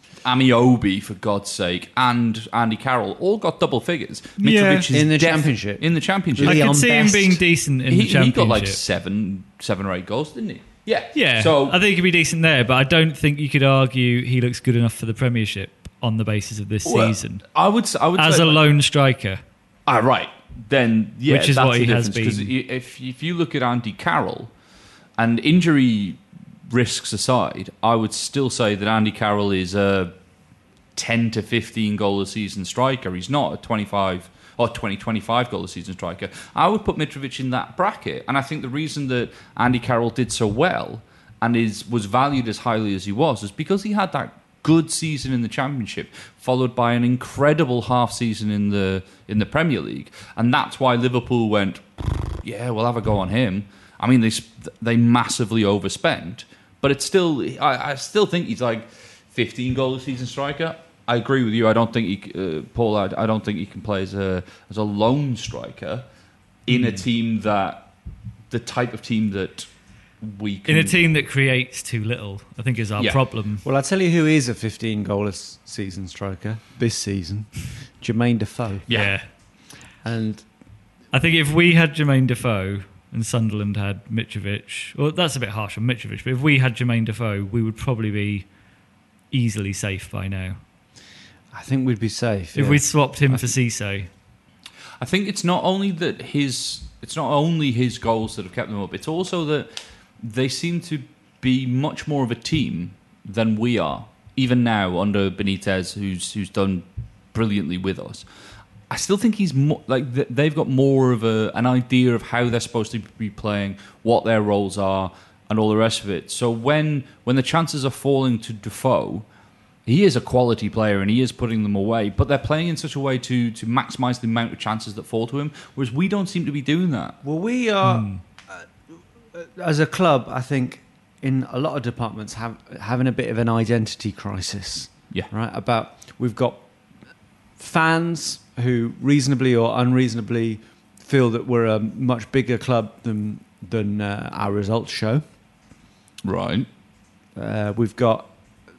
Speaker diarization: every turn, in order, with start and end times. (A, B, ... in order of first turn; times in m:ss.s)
0:00.2-0:06.7 A
0:04.4-0:04.9 B
0:04.9-0:07.4 C
0:06.4-0:08.8 B
0:07.9-0:11.8 A
0:11.1-0:17.4 B
0:16.9-0:18.6 A
0:18.2-0:19.4 B
0:19.9-0:24.5 A
0:21.3-0:22.5 B
0:25.2-0:30.1 A
0:31.0-1:06.1 A
1:06.7-1:07.9 A
1:06.7-1:07.0 B
1:08.5-1:09.7 A
1:10.2-1:11.0 A
1:10.7-1:13.6 B
1:13.6-1:18.8 C
1:18.9-1:19.2 A
1:18.9-1:19.3 B
1:20.0-1:20.4 C
1:21.1-1:28.5 B
1:29.3-1:30.6 B
1:31.5-1:33.5 C
1:32.6-1:34.1 B
1:35.0-1:39.7 A
1:40.2-1:48.2 A
1:48.9-1:59.3 A
1:59.9-2:07.2 A
2:07.2-2:08.6 C
2:07.8-2:08.2 B
2:09.4-2:16.6 C
2:17.6-2:25.2 C
2:26.2-2:26.7 A
2:27.4-2:28.3 C